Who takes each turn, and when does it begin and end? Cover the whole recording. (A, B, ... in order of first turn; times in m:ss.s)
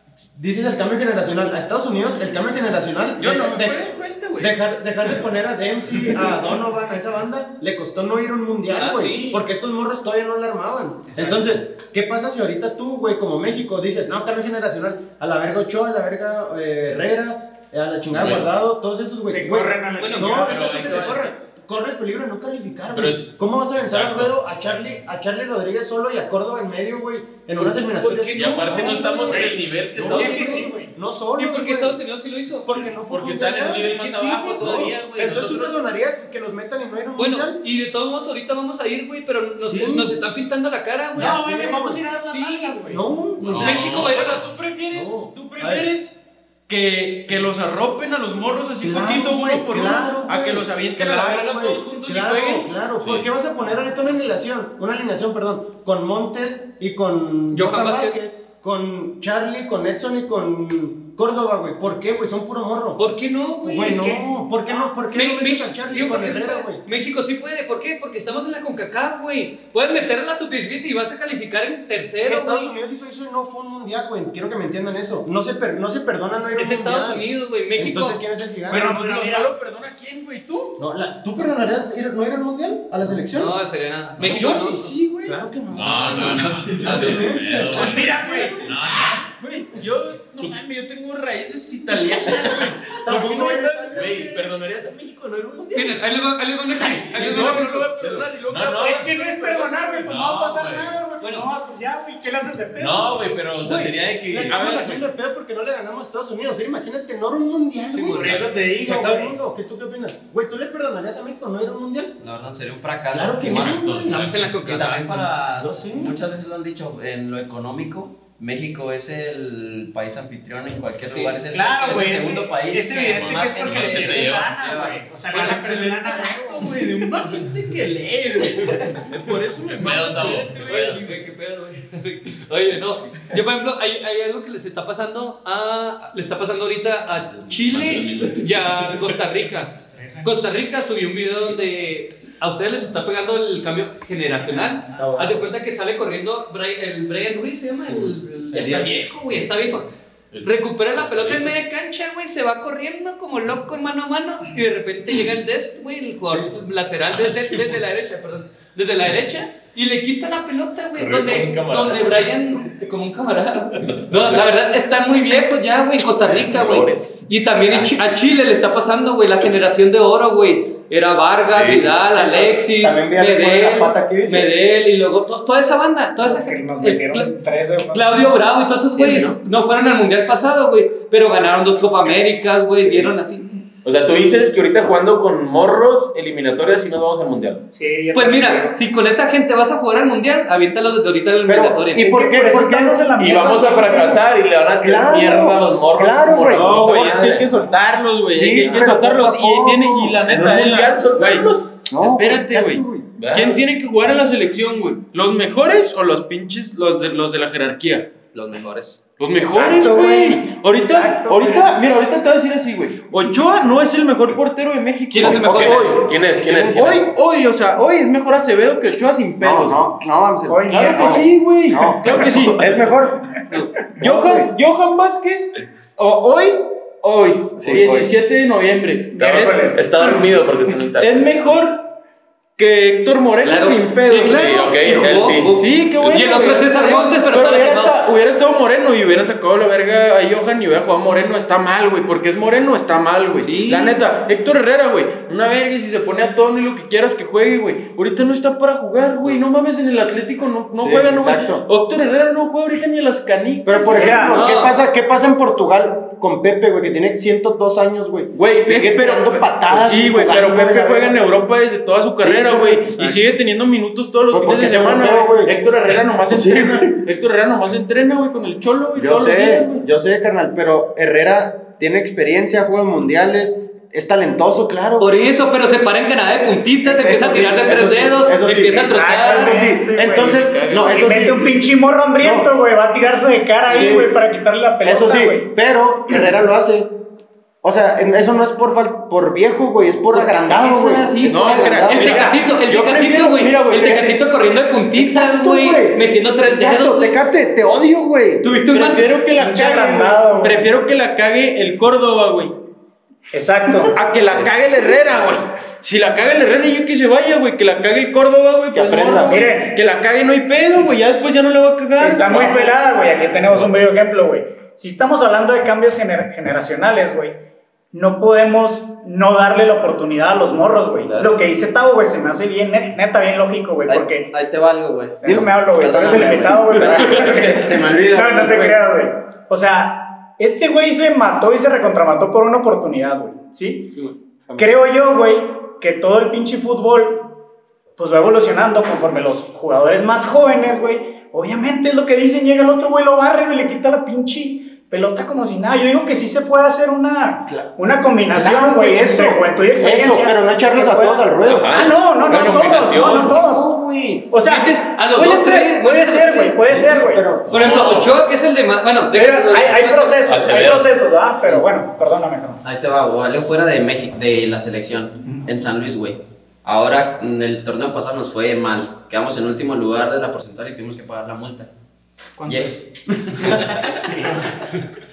0:00.3-0:03.9 A
0:03.2-0:04.5 B
0:04.4-0:32.0 A
0:08.7-0:09.4 C
0:11.1-0:11.6 D
0:18.1-0:18.5 E
0:19.3-0:21.1 D
0:20.0-0:20.4 C
0:20.4-0:21.3 E
0:22.9-0:23.2 E
0:23.8-0:24.5 E
0:27.6-0:29.2 C
0:28.3-0:30.6 E
0:29.2-0:30.9 D
0:31.4-0:32.8 C
0:32.6-0:37.6 A
0:33.1-0:35.7 E
0:33.9-0:34.7 C
0:37.2-0:41.4 C
0:39.6-0:40.1 A
0:41.1-0:42.0 A
0:41.2-0:43.0 D
0:42.3-0:42.8 C
0:42.9-0:44.0 A
0:43.4-0:44.4 E
0:43.5-0:44.4 C
0:43.6-0:46.2 B
0:44.9-0:45.9 A
0:46.7-0:52.7 B
0:48.8-1:03.0 A
0:57.5-0:58.2 C
1:03.0-1:04.0 C
1:03.6-1:06.8 A
1:03.8-1:04.9 D
1:05.1-1:12.7 C
1:12.2-1:18.9 A
1:16.5-1:18.2 C
1:18.7-1:19.5 D
1:18.7-1:20.8 B
1:20.8-1:23.6 A
1:23.3-1:24.9 C
1:24.2-1:25.4 B
1:24.2-1:24.7 A
1:25.2-1:28.0 A
1:25.7-1:29.3 E
1:25.9-1:28.6 B
1:26.9-1:27.2 C
1:27.7-1:28.8 D
1:29.4-1:34.5 B
1:33.0-1:34.2 A
1:33.9-1:36.0 E
1:35.7-1:38.0 C
1:36.8-1:40.1 B
1:38.4-1:39.1 E
1:38.7-1:43.4 D
1:40.0-1:40.9 E
1:41.2-1:41.5 C
1:42.8-1:45.0 E
1:43.6-1:52.2 A
1:47.9-1:48.4 C
1:48.1-1:49.4 D
1:52.2-1:53.9 F
1:53.1-1:54.2 A
1:53.4-1:54.5 E
1:54.0-1:55.3 C
1:54.6-2:05.0 F
1:55.5-1:56.1 A
2:01.0-2:01.4 C
2:01.5-2:06.8 D
2:03.0-2:04.5 E
2:05.3-2:11.2 B
2:09.7-2:11.0 E
2:10.6-2:29.8 C
2:17.5-2:19.1 E
2:19.9-2:20.5 D
2:24.4-2:25.0 D
2:25.0-2:25.4 A
2:28.5-2:28.9 A
2:30.3-2:31.6 E
2:30.4-2:57.3 C
2:36.3-2:36.6 A
2:37.1-2:37.8 E
2:40.9-2:42.6 E
2:43.8-2:44.5 E
2:46.2-2:47.1 E
2:47.6-2:48.3 E
2:51.5-2:52.0 E
2:52.1-2:54.5 A
2:56.2-2:58.4 D
2:57.9-3:03.6 C
3:03.8-3:07.6 E
3:07.7-3:08.8 D
3:08.1-3:12.1 C
3:11.4-3:14.1 A
3:12.0-3:14.2 D
3:13.2-3:17.5 E
3:14.8-3:17.5 A
3:16.5-3:21.5 B
3:18.3-3:20.6 A
3:20.3-3:21.8 E
3:21.9-3:23.1 A
3:22.0-3:28.1 B
3:23.2-3:23.6 E
3:28.3-3:29.0 F
3:29.2-3:39.9 B
3:29.5-3:31.8 D
3:35.1-3:36.0 C
3:35.2-3:35.9 A
3:35.5-3:37.1 E
3:39.4-3:43.4 A
3:40.5-3:41.3 D
3:40.7-3:42.9 B
3:44.0-3:49.6 B
3:44.0-3:44.5 A
3:47.6-3:48.0 A
3:47.7-3:48.0 E
3:49.1-3:50.3 D
3:49.2-3:51.4 E
3:51.0-3:51.9 B
3:52.6-3:54.6 B
3:53.4-3:58.0 C
3:54.2-3:55.5 E
3:55.6-4:14.4 B
4:03.5-4:03.9 C
4:10.8-4:11.6 A
4:13.6-4:21.2 A
4:13.9-4:14.4 D
4:14.3-4:14.7 C
4:18.3-4:29.8 B
4:22.2-4:23.3 A
4:24.3-4:25.5 A
4:26.3-4:26.9 A
4:29.0-4:35.2 A
4:35.0-4:39.6 C
4:36.8-4:41.6 A
4:38.8-4:45.5 D
4:40.3-4:40.9 E
4:42.2-4:42.5 A
4:43.7-4:44.2 A
4:44.8-4:46.9 A
4:47.6-4:52.4 A
4:50.1-4:57.2 C
4:51.2-4:53.9 B
4:52.0-4:52.3 D
4:53.6-4:54.2 A
4:54.9-4:58.5 A
4:58.4-4:59.1 C
4:58.7-5:02.6 B
4:59.3-5:00.7 D
5:03.3-5:03.9 D
5:03.8-5:12.7 B
5:08.7-5:09.4 A
5:09.2-5:09.8 D
5:12.0-5:17.4 D
5:17.9-5:24.3 D
5:21.0-5:21.3 F
5:23.9-5:28.7 F
5:25.2-5:34.0 D
5:26.0-5:26.3 A
5:27.9-5:28.7 A
5:34.6-5:37.4 D
5:38.0-5:53.7 D
5:48.3-5:54.3 A
5:51.4-5:53.4 E
5:54.3-5:57.3 D
5:54.4-5:56.6 C
5:56.7-5:57.7 A
5:57.5-5:58.1 E
5:57.5-6:00.2 C
5:59.1-6:02.6 D
6:00.2-6:00.9 E
6:02.6-6:11.7 F
6:12.4-6:12.8 D
6:12.5-6:14.0 F
6:13.4-6:14.6 D